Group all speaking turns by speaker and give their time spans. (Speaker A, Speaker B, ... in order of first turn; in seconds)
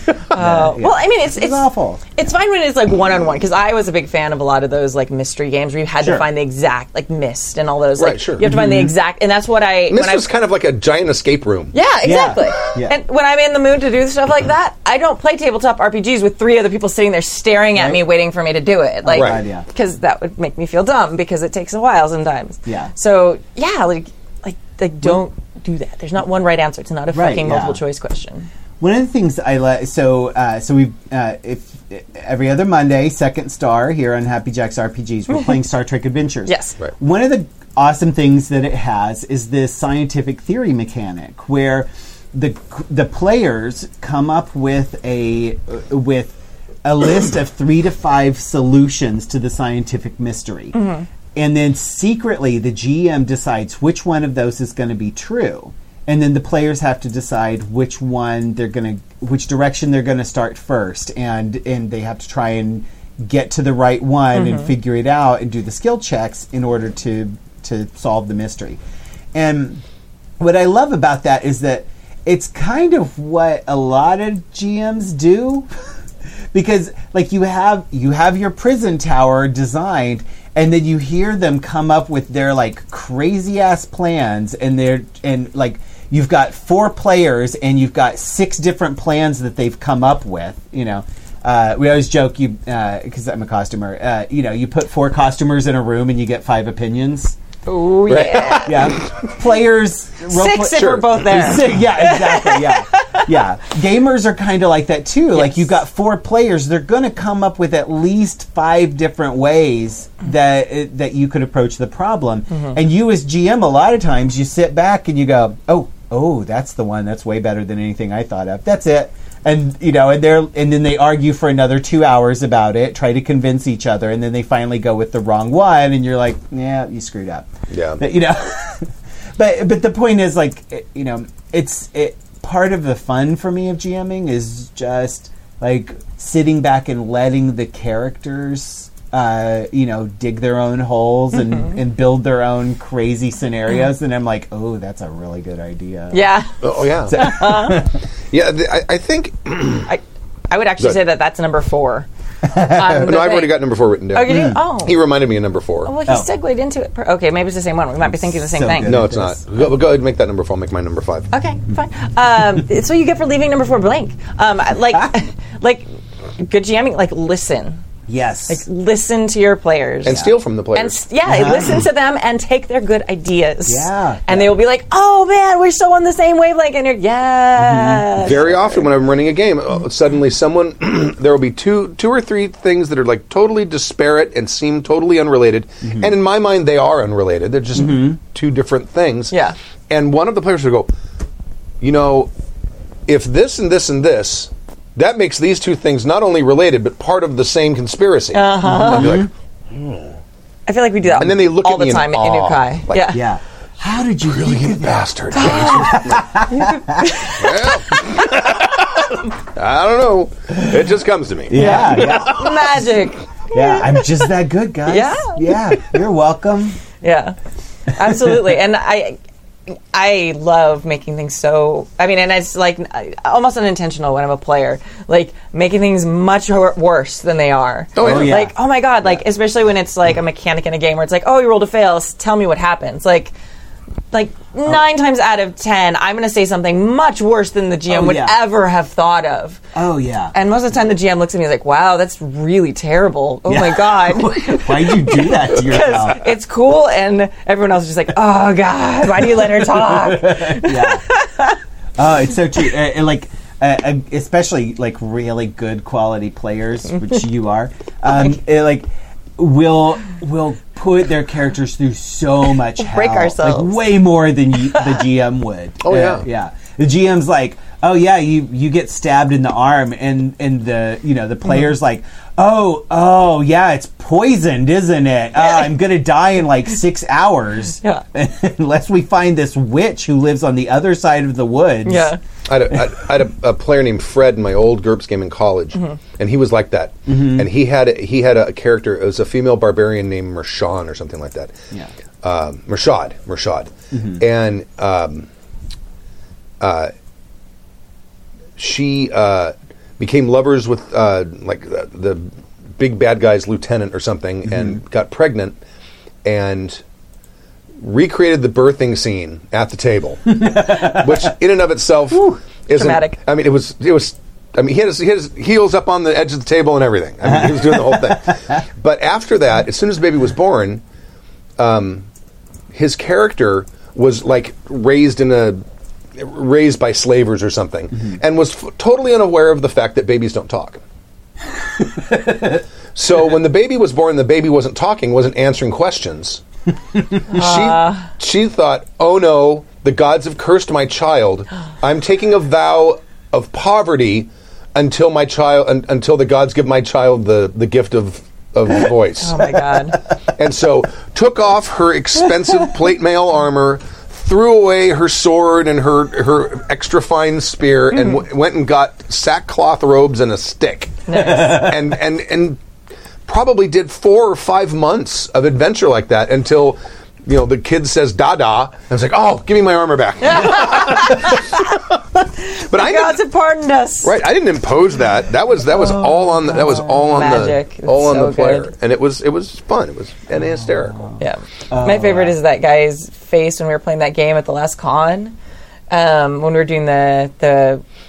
Speaker A: 0.3-10.3, 11.7-28.5, 36.5-36.8, 50.7-51.0, 64.3-64.7, 97.7-98.9, 100.3-103.3, 105.3-105.7, 146.1-147.8, 149.9-153.6, 154.1-155.1, 155.8-158.9, 161.3-165.9, 166.4-167.8, 168.5-178.5, 198.3-199.2, 200.7-203.2, 205.3-207.7, 211.5-214.0, 214.9-215.4, 217.0-217.3, 217.9-219.2, 219.7-233.3, 234.1-239.6, 240.3-251.6, 262.7-263.8, 275.4-275.7, 281.8-282.2, 312.7-313.2, 337.3-338.1, 349.2-350.0, 361.1-361.7, 370.2-371.6, 372.5-374.1, 376.5-378.7, 381.2-385.4, 385.9-387.8
Speaker B: 0.3-2.1, 6.0-6.2, 8.4-8.9, 12.0-12.9, 17.7-18.0, 19.0-19.6, 22.6-22.9, 27.1-27.8, 28.8-50.8, 51.3-68.8, 69.3-69.8, 70.4-75.7, 76.5-97.3, 98.6-146.3, 147.1-148.0, 152.4-153.0, 154.2-154.6, 158.2-159.4, 168.1-168.6, 171.2-171.8, 173.7-174.6, 177.6-178.8, 185.8-186.1, 187.7-188.2, 198.7-199.3, 203.1-207.3, 211.5-212.8, 213.5-216.8, 228.0-228.5, 237.9-238.4, 239.7-240.3, 243.5-246.3, 249.9-251.0, 252.0-282.1, 287.1-287.5, 293.9-294.2, 310.4-310.9, 317.3-318.2, 332.1-332.4, 375.8-377.0, 380.3-382.3
Speaker C: 8.0-8.4, 9.9-11.7, 19.1-19.4, 98.1-99.2, 100.8-101.0, 127.7-128.0, 146.6-147.5, 148.3-149.9, 152.9-155.9, 158.8-161.3, 170.0-171.0, 178.2-189.3, 189.9-190.9, 191.8-192.3, 193.1-200.1, 201.2-203.2, 204.2-206.3, 207.3-212.8, 227.9-228.4, 265.8-266.2, 282.5-291.5, 292.2-295.3, 296.6-296.9, 298.6-305.6, 306.2-306.8, 307.8-320.8, 321.6-322.0, 322.7-325.6, 326.1-330.8, 332.9-336.4, 337.3-349.6, 350.4-362.6, 363.2-371.8, 372.6-373.2, 374.0-381.0